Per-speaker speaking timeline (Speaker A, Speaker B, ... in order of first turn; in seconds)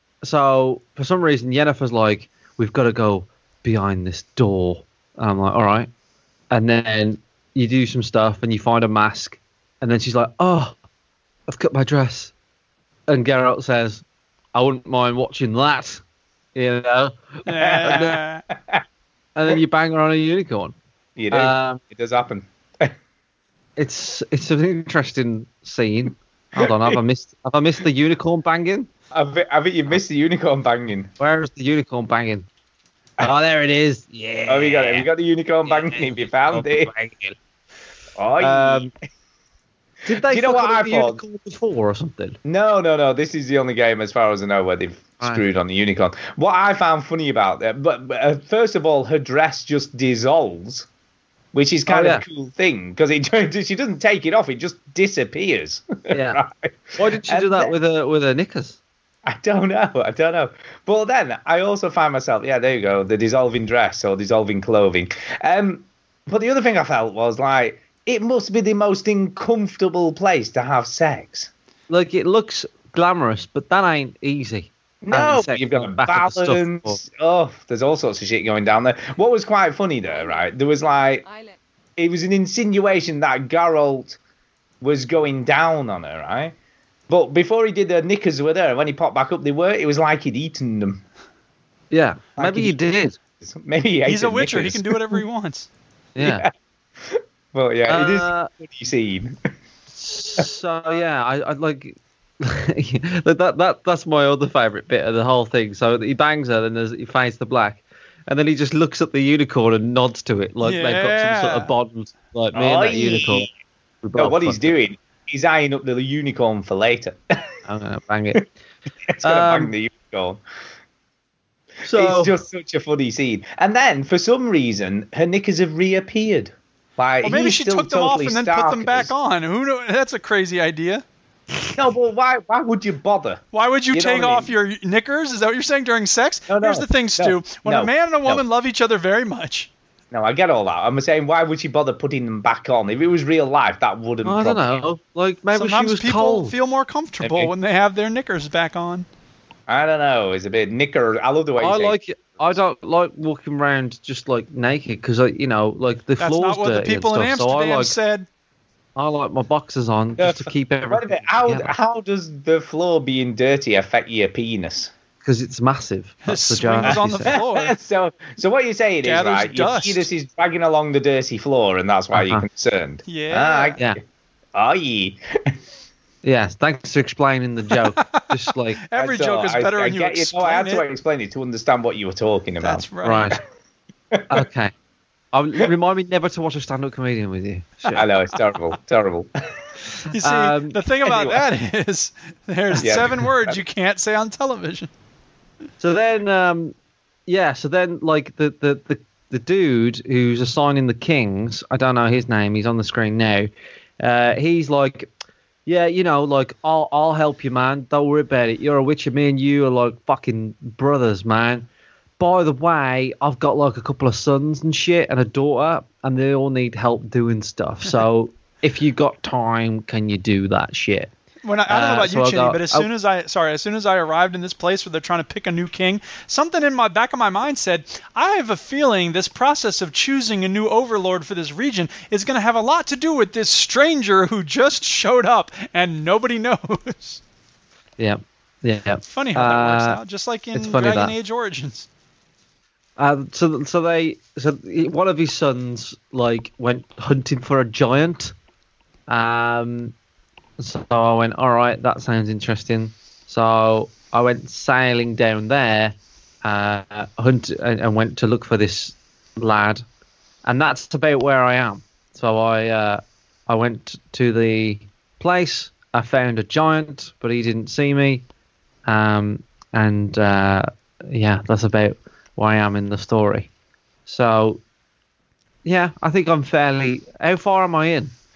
Speaker A: 0.2-5.9, 6.5-10.8, 11.5-12.3, 13.1-14.0, 14.5-16.0, 16.5-18.2, 19.3-20.7, 21.3-21.8, 23.8-28.9, 31.2-32.5, 33.2-35.1, 35.6-37.3, 38.4-38.9, 40.0-42.4, 51.9-52.2, 56.1-56.4, 57.0-58.8, 71.9-77.0, 91.9-93.2, 96.1-96.4, 97.9-98.5, 99.9-113.5, 114.0-114.7, 117.6-118.4, 119.2-119.7, 121.8-122.3, 144.2-146.5, 151.6-157.9, 158.9-161.7, 165.2-167.4, 172.1-172.4, 176.2-178.8, 183.0-183.4, 184.3-184.7, 185.3-188.1, 190.2-190.8, 195.8-196.7, 197.3-205.1, 205.7-211.7, 212.2-221.1, 221.7-222.9, 238.0-240.0, 240.5-241.1, 243.0-248.3, 249.1-249.9, 250.6-259.8, 260.4-268.2, 268.9-273.5, 274.1-274.6, 275.6-278.1
Speaker B: 17.4-18.4, 94.0-95.7, 110.6-111.7, 127.2-131.0, 133.5-139.7, 145.5-149.1, 156.2-158.3, 166.2-167.7, 169.0-170.1, 173.1-173.8, 178.0-178.3, 178.8-180.8, 182.6-183.4, 190.1-194.9, 221.4-237.2, 239.1-241.9
Speaker C: 17.7-18.2, 21.2-22.9, 26.6-27.0, 29.1-31.1, 34.5-36.9, 38.2-38.9, 40.2-41.2, 42.4-50.9, 51.5-57.7, 59.2-71.5, 75.0-81.2, 82.0-84.2, 84.8-86.5, 87.1-91.0, 92.4-92.8, 93.4-95.2, 96.2-96.5, 97.0-99.3, 112.5-113.5, 114.2-117.2, 119.1-120.4, 121.9-129.1, 131.7-134.5, 136.5-138.4, 140.1-144.8, 147.2-147.5, 149.7-152.0, 160.2-164.9, 166.8-173.9, 174.5-175.2, 178.9-182.8, 187.9-189.3, 191.1-191.4, 192.8-193.6